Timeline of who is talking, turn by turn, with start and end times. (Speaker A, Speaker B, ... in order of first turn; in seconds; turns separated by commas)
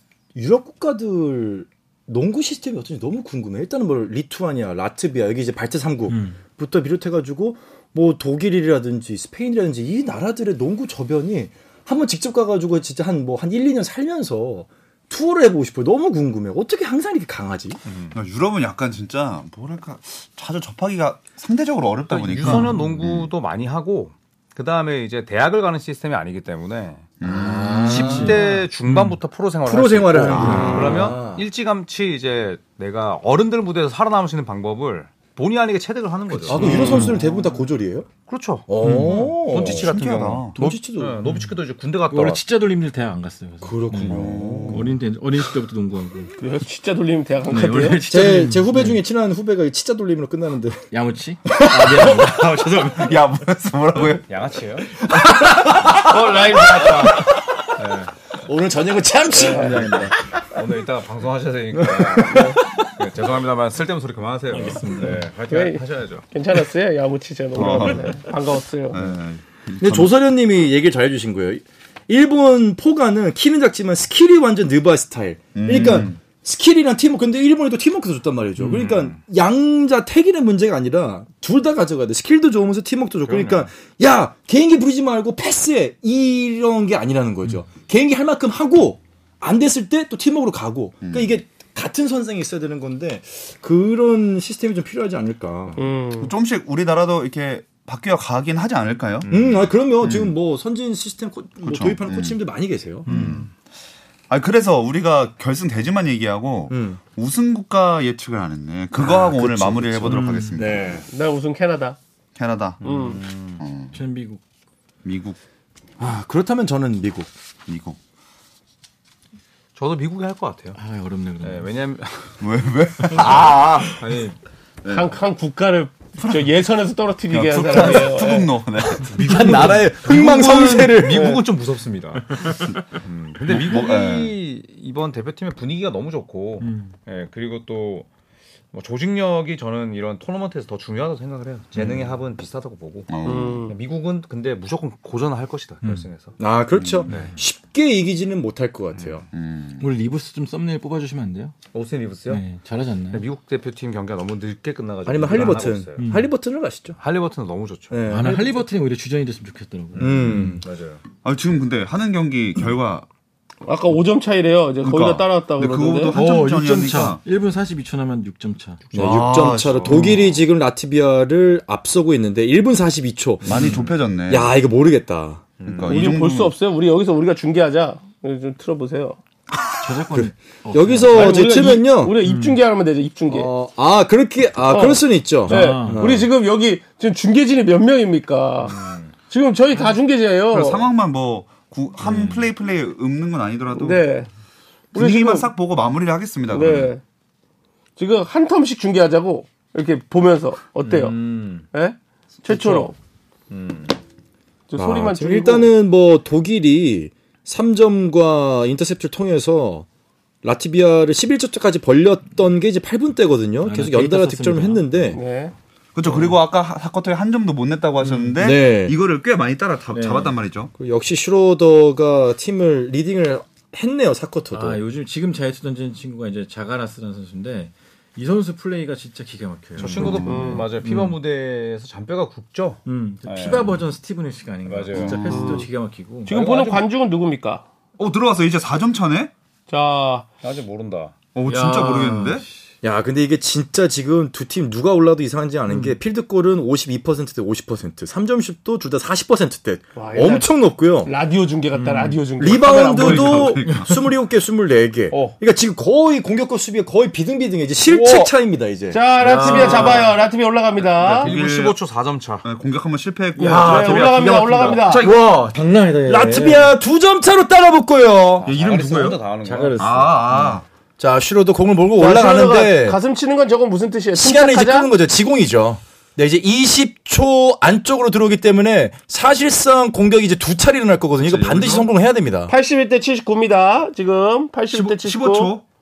Speaker A: 0.3-17.8, Speaker B: 6.1-6.4, Speaker C: 17.9-18.1, Speaker D: 18.1-23.3, Speaker C: 22.1-27.1, Speaker B: 22.4-22.8, Speaker D: 27.2-27.7, Speaker A: 27.2-28.6, Speaker B: 27.7-29.2, Speaker C: 27.8-37.2, Speaker A: 29.6-31.4, Speaker D: 30.3-31.1, Speaker A: 36.5-38.1, Speaker B: 36.5-37.1, Speaker D: 36.6-37.1, Speaker C: 38.3-42.4, Speaker A: 38.7-40.0, Speaker B: 38.8-39.4, Speaker D: 38.9-40.5, Speaker A: 40.5-41.2, Speaker B: 41.2-41.5, Speaker B: 42.1-46.3, Speaker A: 43.6-44.9, Speaker D: 44.0-44.9, Speaker E: 46.4-48.0, Speaker B: 47.5-49.0, Speaker A: 48.1-50.8, Speaker B: 50.9-53.2, Speaker D: 51.6-52.3, Speaker D: 52.9-54.3, Speaker C: 54.0-54.9, Speaker D: 55.0-57.0, Speaker E: 55.6-57.3, Speaker C: 57.8-58.1, Speaker A: 58.4-60.1, Speaker E: 59.3-60.2, Speaker C: 60.5-66.3, Speaker A: 61.8-62.7, Speaker E: 62.3-62.6, Speaker B: 64.5-65.2, Speaker E: 65.5-69.0, Speaker D: 67.5-68.2, Speaker D: 68.9-70.1, Speaker A: 69.8-95.8, Speaker D: 75.5-76.2, Speaker C: 78.6-79.2, Speaker C: 83.2-83.7, Speaker D: 91.0-91.3, Speaker E: 95.8-96.3, Speaker D: 96.2-99.5, Speaker C: 99.2-99.6, Speaker A: 99.3-103.1, Speaker D: 100.0-100.3, Speaker D: 101.6-102.4, Speaker B: 103.0-103.5, Speaker D: 103.1-103.5, Speaker D: 104.3-111.0, Speaker A: 106.7-107.0, Speaker A: 108.9-111.0, Speaker B: 110.0-110.6, Speaker C: 110.6-111.0, Speaker E: 111.1-112.0, Speaker D: 112.4-112.8, Speaker C: 112.8-113.6, Speaker E: 112.8-113.2, Speaker D: 113.6-113.9, Speaker B: 113.9-114.4, Speaker D: 115.0-115.4, Speaker A: 116.0-117.3, Speaker D: 117.7-118.0, Speaker C: 119.7-120.8, Speaker B: 120.7-121.7, Speaker C: 121.4-122.4, Speaker D: 122.4-124.1, Speaker C: 123.1-124.4, Speaker D: 124.8-125.1, Speaker E: 124.9-128.5, Speaker D: 127.3-130.6, Speaker A: 129.1-131.4, Speaker C: 129.2-138.1, Speaker E: 131.1-131.4, Speaker D: 133.5-134.3, Speaker B: 136.6-136.9, Speaker C: 138.7-146.3, Speaker D: 141.8-142.2, Speaker D: 143.1-143.7, Speaker E: 143.2-143.7, Speaker A: 146.4-149.2, Speaker D: 146.7-147.1, Speaker B: 147.1-147.3, Speaker C: 147.1-147.3, Speaker D: 149.3-149.8, Speaker B: 149.8-151.6, Speaker C: 151.7-152.4, Speaker B: 152.3-153.2, Speaker C: 153.1-156.0, Speaker A: 155.0-157.0, Speaker B: 156.0-156.3, Speaker C: 157.0-158.0, Speaker A: 157.9-158.7, Speaker B: 158.1-160.6, Speaker A: 160.0-160.6, Speaker C: 160.6-161.0, Speaker D: 161.2-163.1, Speaker E: 163.6-166.2, Speaker D: 164.8-167.2, Speaker B: 166.1-168.8, Speaker D: 168.9-170.4, Speaker A: 168.9-175.5, Speaker C: 169.0-170.1, Speaker C: 173.4-173.9, Speaker D: 173.4-174.5, Speaker B: 173.6-173.8, Speaker C: 175.6-176.1, Speaker D: 175.6-176.6, Speaker E: 175.9-179.2, Speaker B: 179.8-181.4, Speaker A: 180.1-182.2, Speaker E: 181.1-183.5, Speaker B: 182.2-182.6, Speaker A: 183.3-186.3, Speaker E: 184.7-190.9, Speaker B: 185.5-186.2, Speaker C: 188.6-189.1, Speaker D: 190.5-194.0, Speaker B: 192.1-192.4, Speaker E: 193.7-194.3, Speaker E: 194.9-195.5, Speaker D: 194.9-196.9, Speaker E: 196.5-197.0, Speaker E: 198.0-202.9, Speaker C: 200.8-201.7, Speaker B: 202.5-202.9, Speaker C: 203.5-203.9, Speaker E: 204.7-205.7, Speaker A: 204.8-209.9, Speaker A: 210.4-215.2, Speaker B: 213.6-215.0, Speaker E: 215.1-215.5, Speaker D: 215.9-220.7, Speaker B: 216.0-216.3, Speaker B: 218.0-218.3, Speaker A: 218.4-218.9, Speaker B: 219.9-220.3, Speaker A: 220.8-224.8, Speaker B: 224.5-231.2, Speaker D: 229.8-230.6, Speaker C: 229.8-233.8, Speaker E: 230.3-230.6, Speaker B: 232.8-236.3, Speaker C: 234.7-235.7, Speaker E: 235.2-235.7, Speaker C: 236.3-236.8, Speaker E: 236.3-237.6, Speaker D: 238.0-239.3, Speaker E: 239.7-240.3, Speaker C: 240.4-241.2, Speaker D: 241.3-242.4, Speaker E: 241.4-242.4, Speaker A: 242.8-251.1, Speaker B: 245.7-245.9, Speaker E: 249.9-250.5, Speaker E: 251.0-253.7, Speaker B: 251.7-252.2, Speaker A: 252.4-259.0, Speaker D: 252.4-254.0, Speaker C: 255.1-255.3, Speaker C: 257.9-258.3, Speaker E: 258.9-261.3, Speaker C: 259.2-260.2, Speaker B: 259.5-260.0, Speaker C: 260.8-262.4, Speaker D: 261.2-261.7, Speaker D: 262.4-264.2, Speaker E: 263.4-265.0, Speaker A: 263.4-265.4, Speaker C: 263.6-264.0, Speaker B: 264.0-266.7, Speaker C: 264.6-265.2, Speaker A: 266.0-268.5, Speaker C: 268.4-270.1, Speaker D: 268.4-269.2, Speaker B: 269.4-270.6, Speaker D: 269.8-270.6, Speaker A: 271.0-273.0, Speaker E: 272.0-274.9, Speaker A: 274.1-282.5, Speaker C: 281.2-281.9, Speaker E: 282.5-285.5, Speaker D: 284.7-285.6